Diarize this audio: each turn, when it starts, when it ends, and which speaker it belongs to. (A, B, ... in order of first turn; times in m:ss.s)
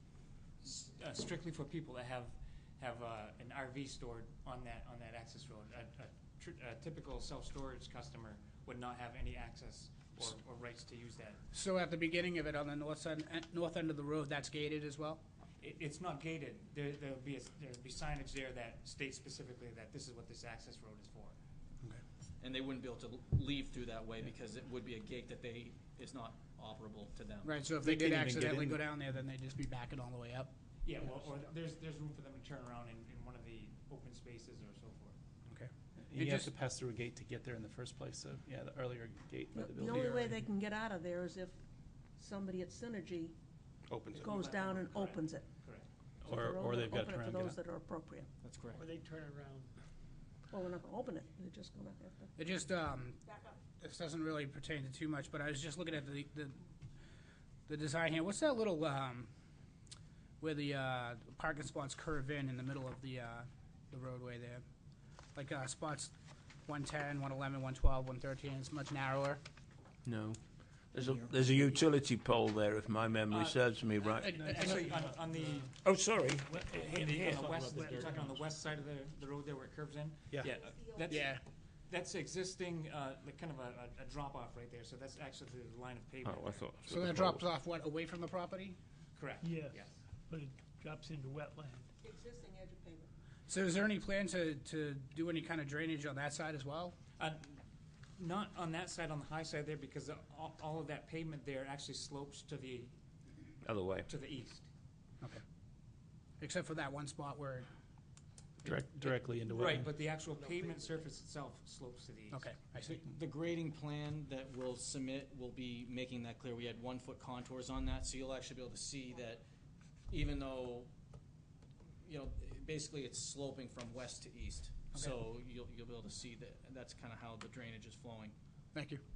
0:00.6-0:11.4 A
0:11.5-0:15.2 B
0:15.6-0:21.4 A
0:22.4-0:27.6 C
0:27.4-0:30.5 B
0:27.8-0:28.8 D
0:30.8-0:35.2 A
0:35.5-0:36.5 B
0:36.0-0:40.4 D
0:39.5-0:41.6 E
0:42.2-0:43.4 E
0:43.9-0:44.3 D
0:44.1-0:45.5 E
0:44.1-0:45.9 A
0:46.2-0:47.6 D
0:46.3-0:48.3 E
0:48.4-0:48.9 C
0:48.7-0:49.7 F
0:50.5-0:52.3 E
0:52.4-0:53.2 B
0:53.8-0:56.6 B
0:57.7-0:59.3 B
1:00.4-1:04.6 B
1:05.4-1:06.1 B
1:06.7-1:09.4 B
1:10.0-1:10.4 G
1:10.9-1:14.9 G
1:13.3-1:13.6 A
1:14.1-1:15.8 A
1:14.2-1:14.8 B
1:15.8-1:18.1 G
1:16.4-1:18.3 F
1:16.8-1:21.4 A
1:21.1-1:21.4 B
1:21.9-1:26.6 A
1:26.2-1:27.5 G
1:26.9-1:28.8 B
1:29.2-1:30.0 A
1:29.4-1:31.9 F
1:32.0-1:33.1 E
1:33.5-1:37.0 B
1:37.2-1:37.6 A
1:38.2-1:42.9 A
1:43.6-1:44.1 G
1:44.1-1:44.7 A
1:46.4-1:47.7 B
1:48.6-1:49.9 D
1:49.5-1:52.5 A
1:52.3-1:53.0 B
1:52.8-1:59.4 C
2:00.1-2:00.9 C
2:02.0-2:08.4 C
2:08.7-2:09.0 B